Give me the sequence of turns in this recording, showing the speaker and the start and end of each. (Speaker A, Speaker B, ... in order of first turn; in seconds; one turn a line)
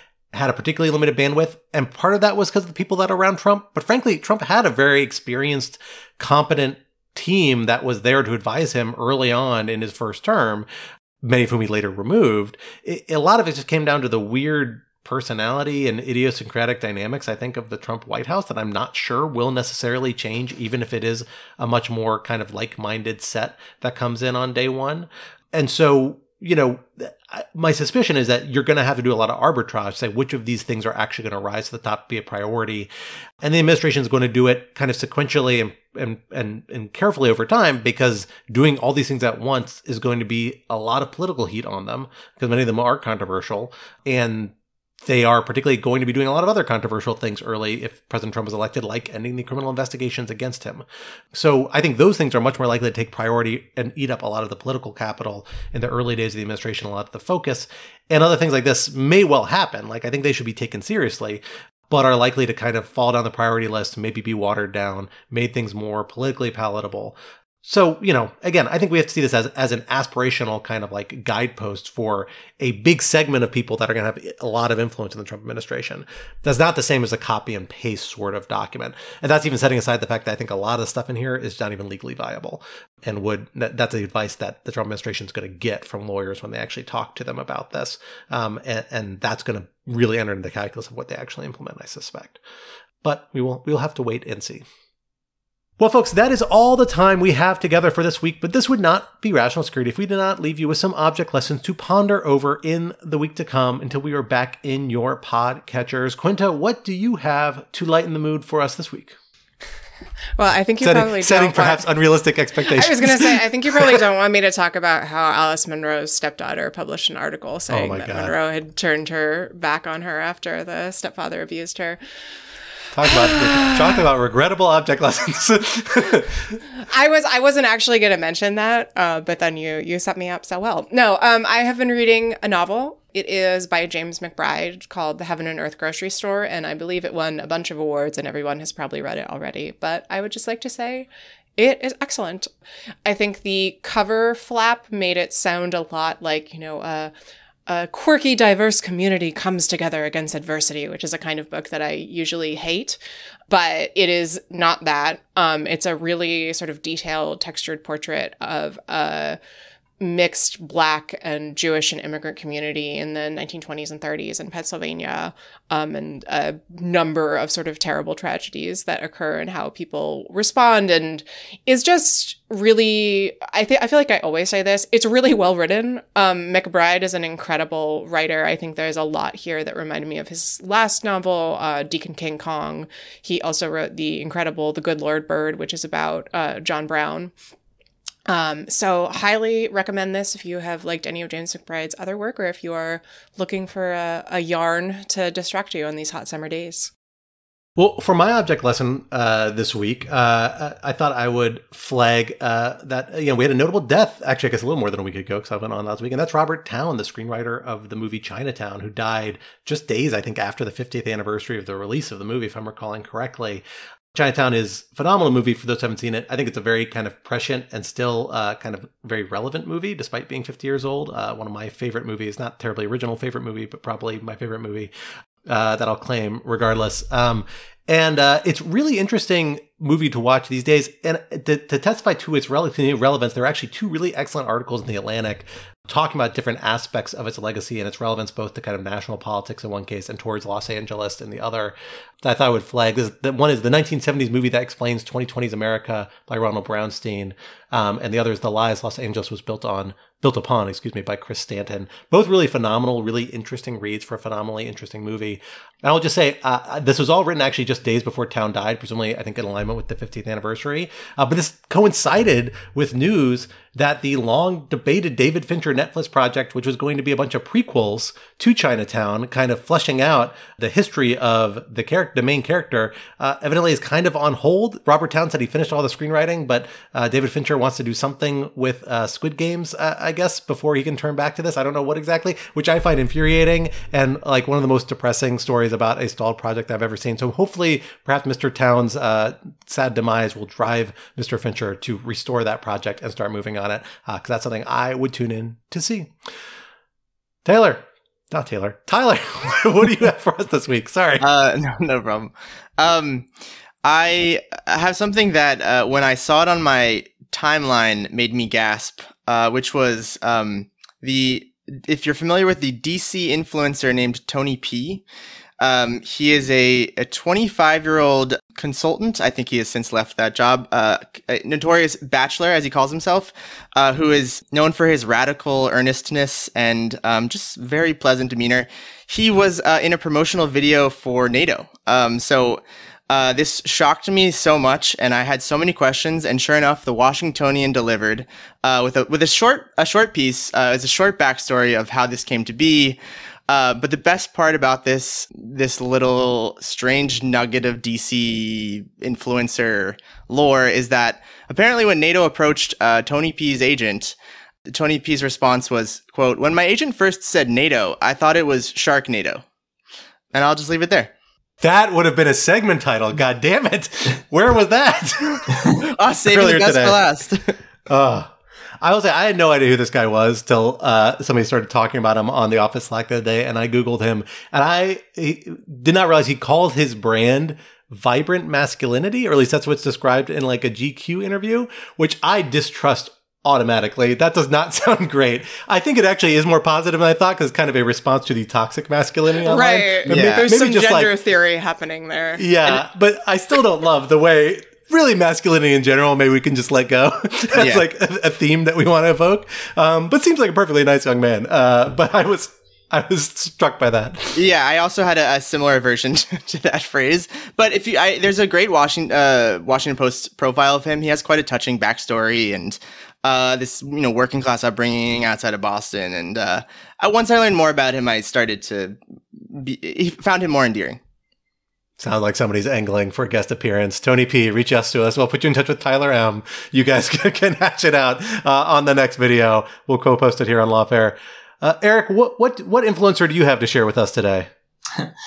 Speaker A: 0.3-10.7
Speaker A: 11.2-32.9
Speaker A: 33.4-92.4
Speaker A: 93.0-94.7
Speaker A: 95.8-109.2
Speaker B: 110.4-111.8
Speaker A: 110.8-114.0
Speaker B: 112.7-122.0
Speaker A: 117.7-118.3
Speaker A: 122.9-126.6
Speaker B: 123.1-124.0
Speaker B: 126.8-142.5
Speaker B: 143.1-147.1
Speaker B: 147.7-159.4
Speaker B: 160.0-187.3
Speaker B: 188.3-196.9
Speaker A: 197.8-213.6
Speaker A: 214.1-224.9
Speaker A: 225.5-296.1
Speaker A: 297.4-301.2
Speaker C: 301.2-303.3
Speaker C: 303.8-315.0
Speaker C: 315.6-354.2
Speaker C: 354.7-359.4
Speaker C: 360.3-361.1
Speaker A: 361.6-367.0
Speaker C: 366.0-367.6
Speaker A: 367.9-391.1
Speaker B: 389.4-392.5
Speaker C: 390.1-390.5
Speaker A: 392.4-404.4
Speaker C: 397.5-397.8
Speaker C: 404.4-421.0
Speaker A: 422.0-434.5